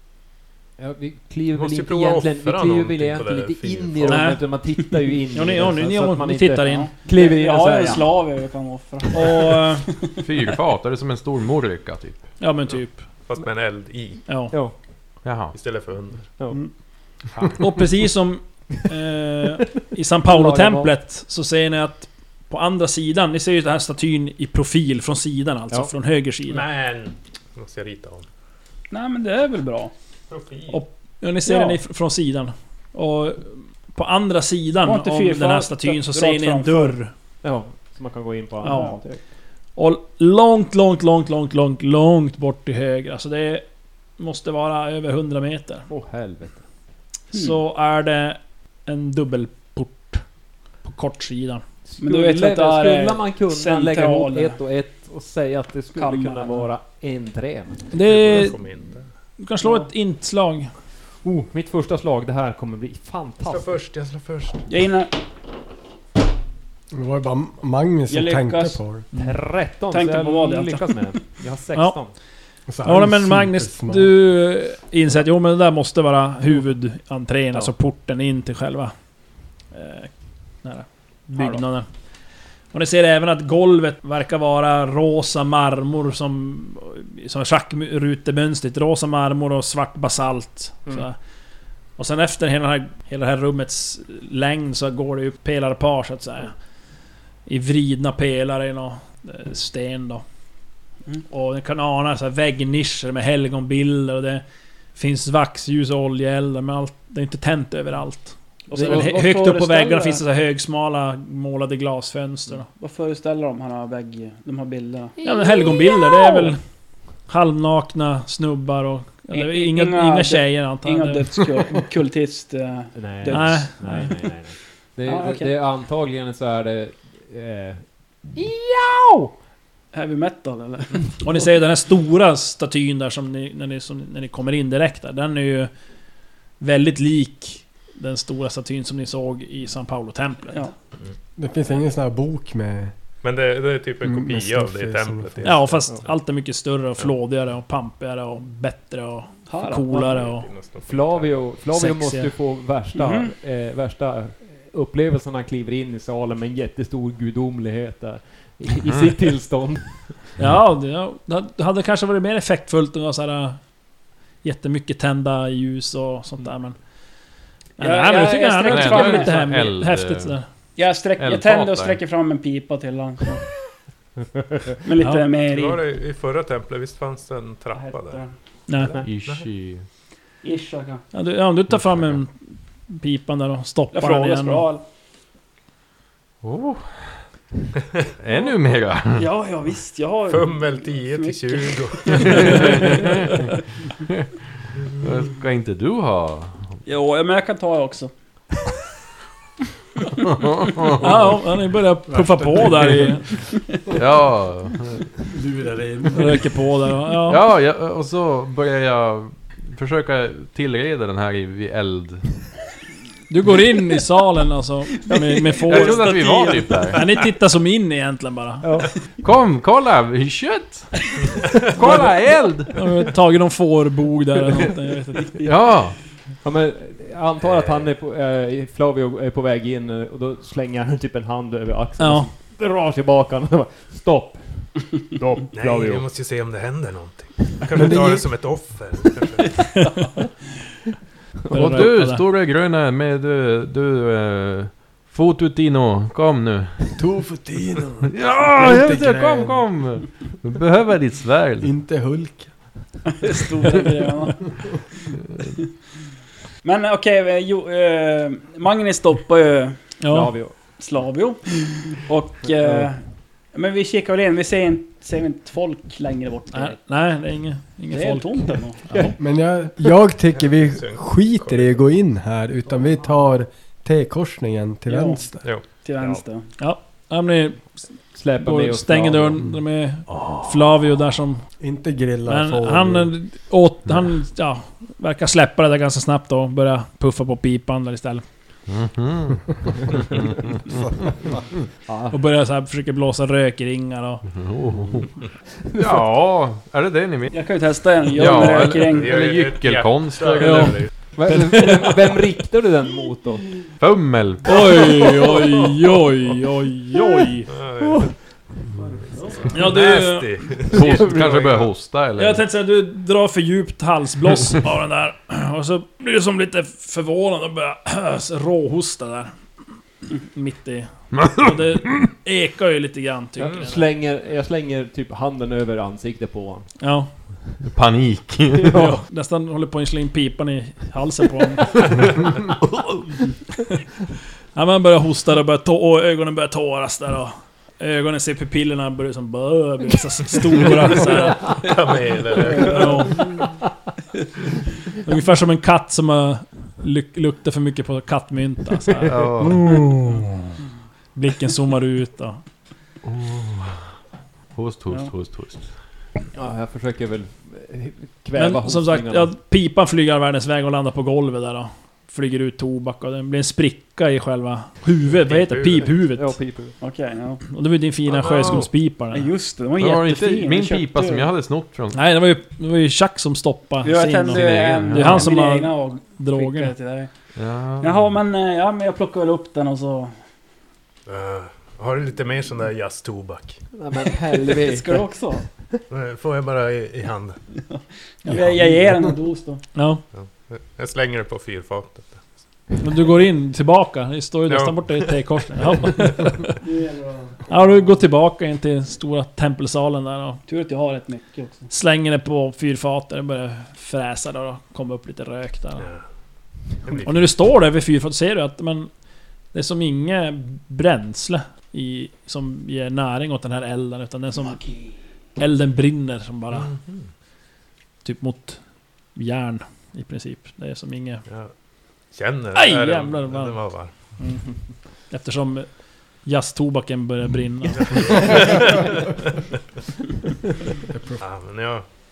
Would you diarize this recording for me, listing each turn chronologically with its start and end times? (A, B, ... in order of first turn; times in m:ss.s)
0:00.8-0:08.1 A
0:01.5-0:04.3 B
0:04.1-0:04.4 C
0:05.3-0:06.9 C
0:06.6-0:10.2 D
0:09.1-0:09.9 C
0:10.2-0:12.3 E
0:12.4-0:13.0 C
0:13.3-0:14.2 B
0:14.3-0:14.5 C
0:15.2-0:15.6 E
0:15.5-0:16.3 B
0:16.4-0:16.6 A
0:17.5-0:26.6 C
0:20.2-0:20.9 A
0:26.5-0:28.2 B
0:28.9-0:29.9 D
0:30.3-0:30.8 B
0:30.7-0:37.1 C
0:31.4-0:31.8 D
0:34.8-0:36.9 D
0:37.4-0:39.2 A
0:38.6-0:39.0 C
0:38.7-0:39.0 D
0:39.8-0:43.6 C
0:44.2-0:45.9 C
0:45.9-0:46.6 A
0:47.3-0:50.2 C
0:50.8-0:51.6 C
0:51.9-0:57.9 A
0:52.0-0:54.6 D
0:55.9-0:56.7 D
0:57.9-0:58.6 C
0:58.0-0:59.1 B
0:59.4-1:00.7 C
0:59.6-0:59.9 D
1:01.2-1:03.8 A
1:03.4-1:04.6 B
1:04.7-1:05.1 D
1:06.9-1:09.1 F
1:08.1-1:08.8 D
1:09.1-1:12.1 A
1:09.9-1:11.3 D
1:12.7-1:14.1 F
1:12.8-1:18.9 C
1:19.7-1:20.1 C
1:20.6-1:21.9 C
1:22.7-1:31.2 C
1:32.0-1:36.6 C
1:37.4-1:40.2 C
1:41.3-1:44.4 C
1:44.9-1:52.7 C
1:48.7-1:50.2 D
1:48.8-1:49.1 A
1:52.8-1:55.2 D
1:55.2-1:56.6 C
1:57.2-2:01.2 C
1:59.3-2:04.1 D
2:02.9-2:09.3 A
2:03.3-2:04.1 C
2:05.0-2:05.5 D
2:09.9-2:11.0 D
2:11.2-2:15.7 C
2:16.6-2:20.7 C
2:21.4-2:22.9 F
2:23.2-2:25.9 B
2:24.0-2:25.6 F
2:25.4-2:30.5 C
2:29.5-2:30.2 D
2:30.1-2:31.5 B
2:30.8-2:40.4 A
2:31.7-2:32.3 C
2:33.0-2:33.3 D
2:38.9-2:39.1 E
2:40.4-2:43.7 C
2:44.4-2:46.8 C
2:47.8-2:50.4 C
2:47.8-2:49.4 D
2:48.6-2:50.4 E
2:50.8-2:53.4 D
2:51.2-2:52.0 E
2:54.8-2:55.8 D
2:55.0-2:55.2 C
2:55.5-2:58.2 B
2:57.7-2:58.3 D
2:58.7-2:58.9 C
2:58.9-2:59.8 E
3:00.4-3:01.0 D
3:01.1-3:04.6 C
3:03.9-3:04.8 D
3:06.4-3:07.2 E
3:08.2-3:09.3 E
3:09.1-3:13.4 D
3:10.3-3:13.0 B
3:12.3-3:13.4 E
3:14.9-3:16.8 E
3:16.8-3:18.1 D
3:20.2-3:21.3 E
3:21.0-3:23.3 C
3:22.1-3:23.2 F
3:23.9-3:25.0 E
3:25.3-3:26.4 F
3:26.1-3:27.4 C
3:27.2-3:32.5 E
3:33.3-3:38.8 C
3:35.6-3:37.0 E
3:35.7-3:36.8 D
3:38.6-3:38.9 A
3:39.2-3:42.7 E
3:41.8-3:42.3 A
3:42.7-3:45.3 C
3:45.4-3:46.0 E
3:46.4-3:56.1 A
3:47.4-3:47.9 B
3:52.0-3:52.3 C
3:55.5-3:59.6 B
3:57.8-3:58.2 F
4:01.5-4:02.2 C
4:01.5-4:07.0 E
4:07.0-4:09.6 F
4:08.0-4:11.7 E
4:11.6-4:12.7 F
4:13.1-4:14.5 D
4:16.6-4:20.0 D
4:20.0-4:20.3 C
4:20.1-4:20.6 A
4:20.7-4:23.0 D
4:22.6-4:22.9 A
4:23.5-4:26.8 D
4:26.5-4:29.2 C
4:27.9-4:29.1 D
4:29.2-4:35.5 F
4:30.4-4:31.8 B
4:34.9-4:36.5 D
4:35.4-4:36.0 B
4:36.6-4:41.4 C
4:38.1-4:39.4 A
4:41.6-4:43.1 F
4:42.3-4:48.2 C
4:48.7-4:51.3 E
4:51.9-4:52.2 A
4:52.1-4:54.2 C
4:54.3-4:55.1 E
4:54.7-4:55.0 A
4:55.7-4:56.0 A
4:55.8-4:57.3 E
4:57.3-4:59.2 D
4:58.0-5:00.9 E
4:58.9-5:00.9 B
5:00.4-5:01.9 C
5:01.1-5:03.6 A
5:03.8-5:05.0 E
5:04.4-5:07.5 C
5:07.5-5:08.1 B
5:07.8-5:08.1 A
5:09.2-5:11.5 B
5:09.5-5:10.5 C
5:10.7-5:12.4 E
5:10.7-5:11.7 A
5:12.2-5:19.3 C
5:20.2-5:23.8 C
5:23.4-5:26.7 A
5:26.8-5:27.1 C
5:27.6-5:28.8 E
5:28.7-5:28.9 A
5:28.7-5:32.0 C
5:32.7-5:33.0 E
5:34.5-5:41.7 C
5:41.4-5:43.3 B
5:42.4-5:43.4 C
5:45.0-5:49.2 C
5:49.0-5:50.6 E
5:51.1-5:52.4 C
5:53.0-5:53.9 E
5:54.5-5:55.8 E
5:56.3-5:59.3 A
5:58.3-6:06.4 C
6:05.2-6:05.9 B
6:06.0-6:06.7 A
6:06.8-6:07.4 D
6:07.4-6:09.3 C
6:08.1-6:08.7 B
6:09.1-6:11.3 D
6:09.8-6:12.0 E
6:11.9-6:16.7 C
6:13.8-6:17.1 D
6:14.3-6:15.3 E
6:17.3-6:18.1 E
6:17.8-6:20.1 D
6:21.1-6:23.6 B
6:23.7-6:25.1 A
6:24.0-6:25.4 D
6:25.9-6:27.4 B
6:27.7-6:29.6 D
6:28.3-6:29.1 F
6:29.7-6:30.0 C
6:30.1-6:32.3 B
6:32.8-6:36.5 C
6:34.5-6:35.1 B
6:36.6-6:37.4 D
6:37.5-6:40.4 C
6:40.5-6:41.7 D
6:41.7-6:45.9 C
6:45.8-6:46.0 B
6:46.8-6:47.3 B
6:47.0-6:48.9 C
6:49.5-6:54.6 C
6:54.5-6:54.9 D
6:55.4-6:56.7 C
6:56.5-6:57.1 B
6:58.0-6:58.6 C
6:59.1-7:01.2 C
7:02.1-7:03.9 B
7:02.5-7:03.6 C
7:04.2-7:04.6 C
7:05.1-7:08.4 C
7:07.7-7:09.2 B
7:10.9-7:11.2 F
7:11.2-7:11.8 B